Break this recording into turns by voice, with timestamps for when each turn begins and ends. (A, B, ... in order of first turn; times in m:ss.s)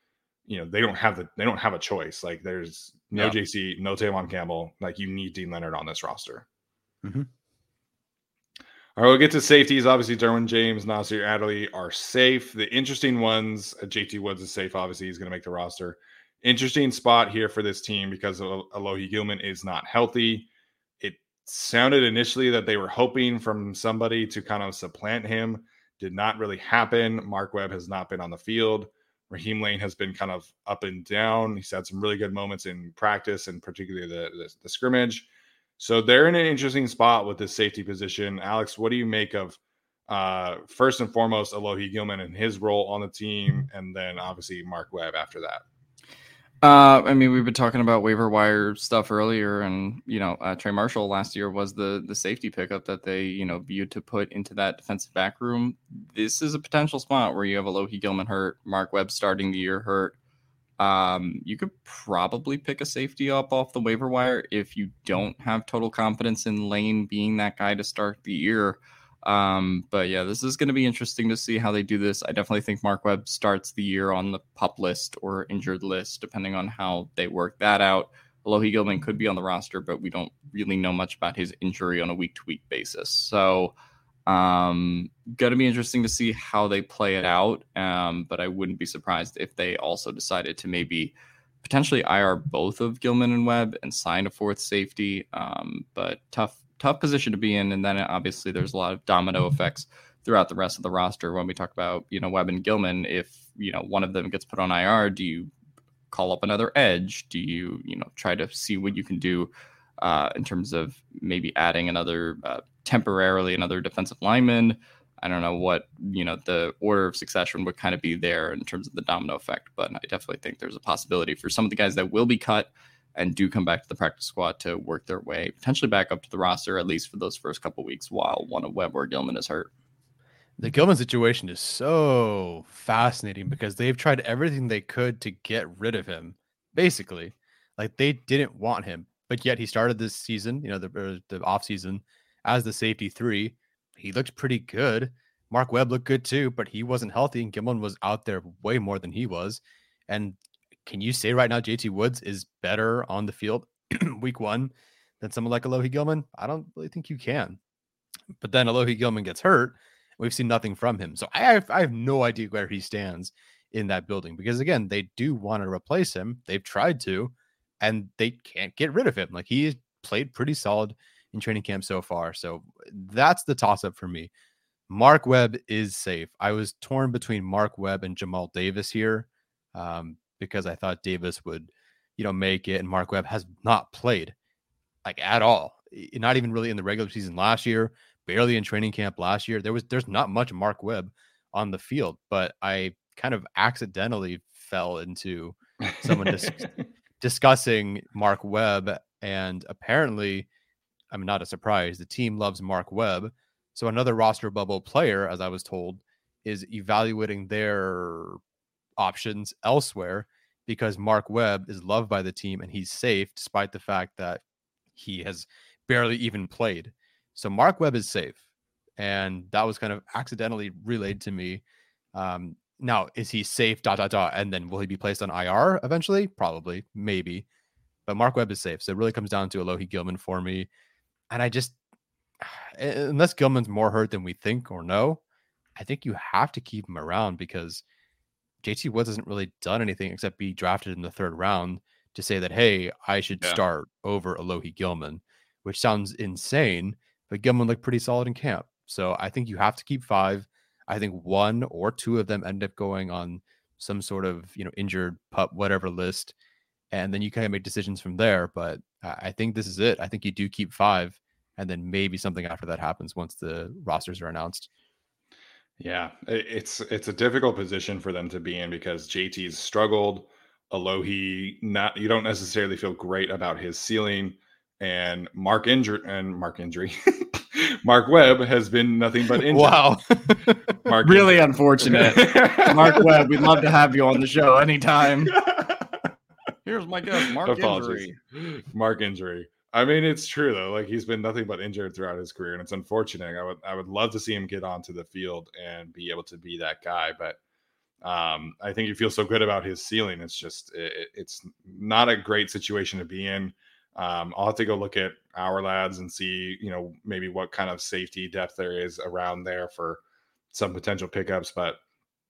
0:00.5-0:06.4 A
0:07.0-0:07.3 B
0:09.0-0:20.5 A
0:21.0-0:35.3 A
0:35.8-0:45.6 A
0:46.6-1:00.2 C
1:00.8-1:23.7 C
1:24.3-1:45.5 C
1:46.1-2:09.7 C
2:10.6-2:37.6 B
2:38.4-2:54.3 B
2:54.9-3:04.3 B
3:05.0-3:16.7 B
3:17.2-3:20.5 B
3:21.1-3:28.4 B
3:29.0-3:34.4 B
3:34.9-3:38.4 B
3:39.0-3:41.6 B
3:42.1-3:47.4 B
3:48.0-3:50.7 B
3:51.3-3:51.8 B
3:52.4-3:55.2 B
3:55.8-3:57.8 B
3:58.6-4:16.3 B
4:16.9-4:24.7 B
4:25.8-4:39.8 A
4:39.5-4:40.7 B
4:40.8-4:43.6 A
4:41.0-4:45.3 C
4:45.3-4:46.0 A
4:46.6-4:48.1 C
4:47.4-4:57.4 A
4:58.0-5:10.0 A
5:10.5-5:11.8 A